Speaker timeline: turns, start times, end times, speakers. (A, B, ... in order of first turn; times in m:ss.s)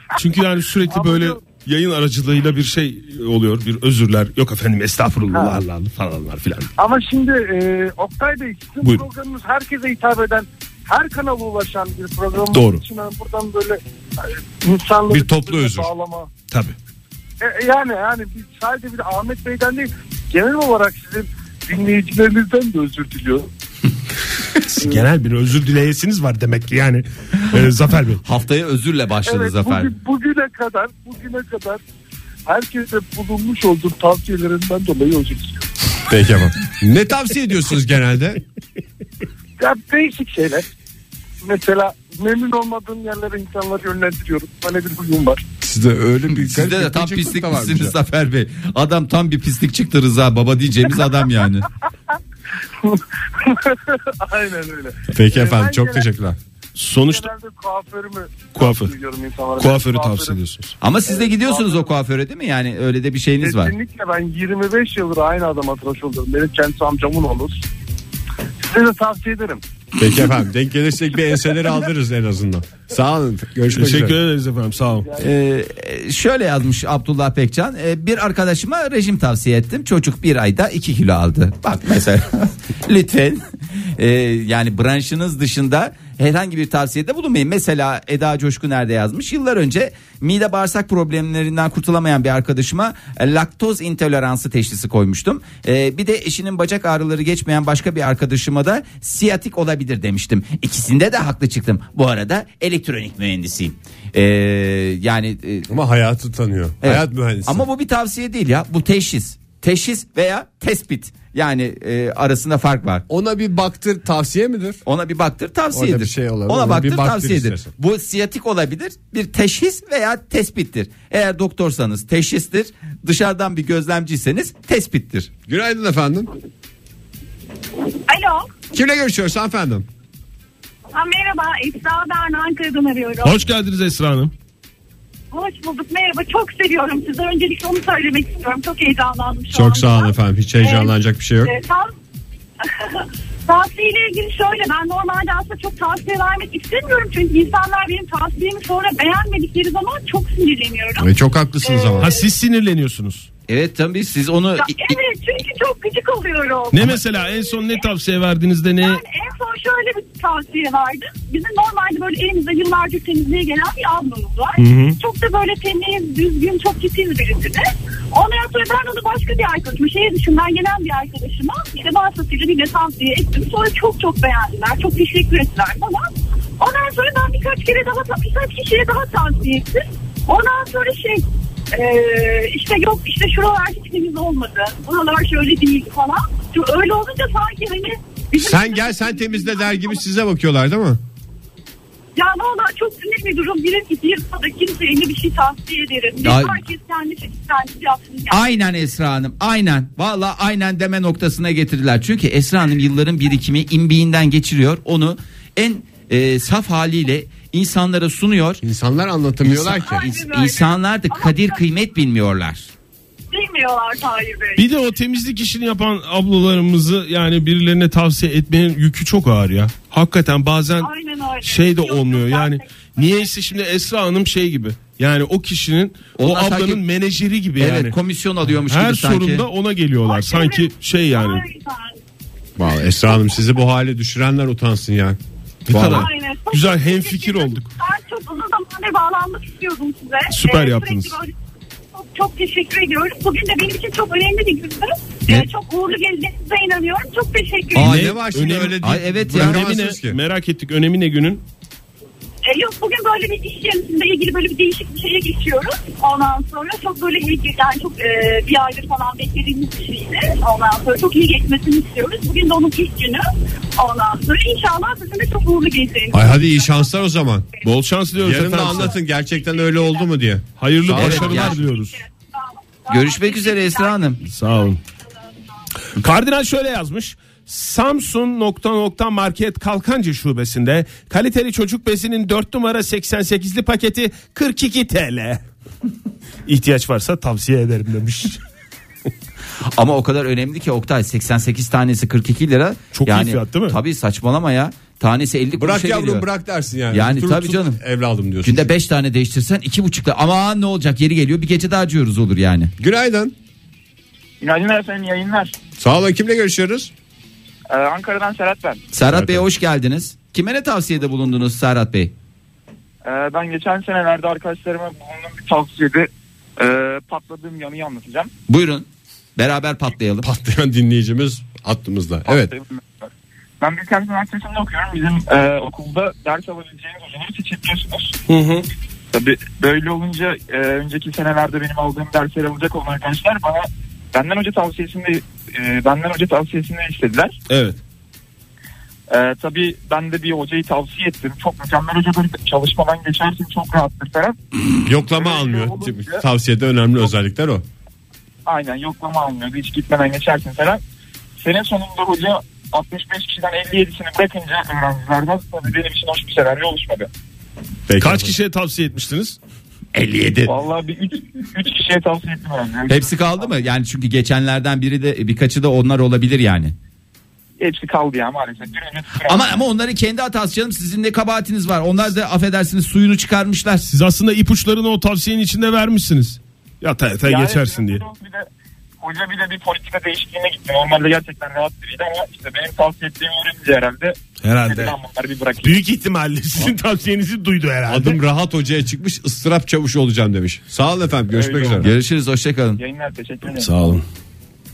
0:00.2-0:06.7 A
0:00.9-0:01.4 B
0:06.8-0:16.3 B
0:12.5-0:12.8 A
0:15.1-0:15.9 C
0:17.4-0:23.5 B
0:24.6-0:28.2 A
0:24.8-0:25.0 B
0:28.2-0:29.9 D
0:29.3-0:31.8 B
0:32.5-0:35.6 B
0:36.1-0:38.4 C
0:39.6-0:40.7 B
0:41.4-0:45.4 B
0:45.6-0:48.0 C
0:46.3-0:51.7 D
0:52.8-0:56.1 B
0:55.1-0:56.4 C
0:56.8-0:57.3 A
0:57.0-1:00.4 B
0:58.6-0:58.9 A
0:59.6-1:00.8 A
1:00.8-1:03.7 D
1:01.1-1:01.9 B
1:03.4-1:07.6 B
1:08.6-1:09.6 B
1:10.0-1:14.2 C
1:13.7-1:15.1 A
1:14.8-1:15.3 B
1:15.2-1:23.4 D
1:24.0-1:45.7 D
1:45.7-1:47.6 C
1:46.8-1:53.0 D
1:53.1-1:54.8 C
1:54.9-2:05.3 D
1:55.7-1:57.7 C
2:05.5-2:06.3 C
2:08.1-2:08.5 E
2:08.7-2:09.9 C
2:10.9-2:13.4 E
2:13.2-2:14.3 A
2:15.3-2:21.9 E
2:19.5-2:21.5 C
2:22.6-2:32.3 E
2:31.0-2:32.1 C
2:32.0-2:33.3 A
2:33.5-2:34.8 D
2:34.6-2:37.8 E
2:36.7-2:39.0 A
2:38.8-3:10.0 E
2:44.6-2:45.0 A
3:08.4-3:11.0 C
3:12.2-3:18.6 E
3:16.2-3:16.7 D
3:18.3-3:28.6 D
3:28.6-3:30.1 C
3:29.5-3:32.7 D
3:29.6-3:31.6 E
3:33.3-3:34.6 E
3:34.6-3:40.9 A
3:40.8-3:43.3 E
3:41.4-3:48.0 A
3:46.2-3:46.8 D
3:47.6-3:49.5 D
3:48.5-3:51.4 A
3:50.0-3:52.0 E
3:52.6-3:56.1 C
3:55.7-3:57.7 A
3:55.8-4:01.3 E
4:00.3-4:01.2 A
4:01.9-4:08.0 E
4:07.8-4:10.2 C
4:07.8-4:11.4 A
4:08.8-4:09.6 D
4:12.4-4:26.9 E
4:26.1-4:27.5 C
4:27.6-4:29.0 A
4:28.2-4:31.5 C
4:29.4-4:30.1 E
4:30.6-4:32.0 A
4:31.0-4:34.7 E
4:31.0-4:31.6 D
4:32.9-4:34.2 D
4:34.2-4:34.8 A
4:35.9-4:45.4 A
4:46.5-4:48.4 A
4:49.6-4:56.3 D
4:52.9-4:53.8 A
4:55.6-4:58.7 C
4:56.9-4:57.8 D
4:58.4-5:02.7 D
5:02.8-5:03.3 C
5:04.4-5:05.6 F
5:05.8-5:06.9 C
5:07.7-5:08.8 F
5:08.9-5:12.1 D
5:09.1-5:09.4 C
5:13.0-5:18.3 F
5:18.5-5:20.3 D
5:20.2-5:22.5 C
5:22.3-5:28.2 F
5:28.3-5:28.7 A
5:29.1-5:37.4 F
5:37.5-5:37.8 A
5:39.1-5:44.4 F
5:44.8-5:47.6 C
5:45.1-5:46.2 F
5:48.5-5:50.8 F
5:51.4-5:57.1 F
5:57.9-5:58.4 C
5:58.0-5:59.4 A
5:59.9-6:00.6 D
6:00.5-6:03.6 F
6:02.9-6:06.7 D
6:07.6-6:09.6 F
6:09.2-6:13.9 D
6:13.9-6:18.0 A
6:17.2-6:18.5 F
6:19.0-6:25.8 F
6:24.4-6:25.0 A
6:25.6-6:28.2 A
6:27.9-6:31.9 C
6:31.3-6:31.9 F
6:31.8-6:32.8 D
6:32.8-6:33.7 F
6:33.6-6:34.0 A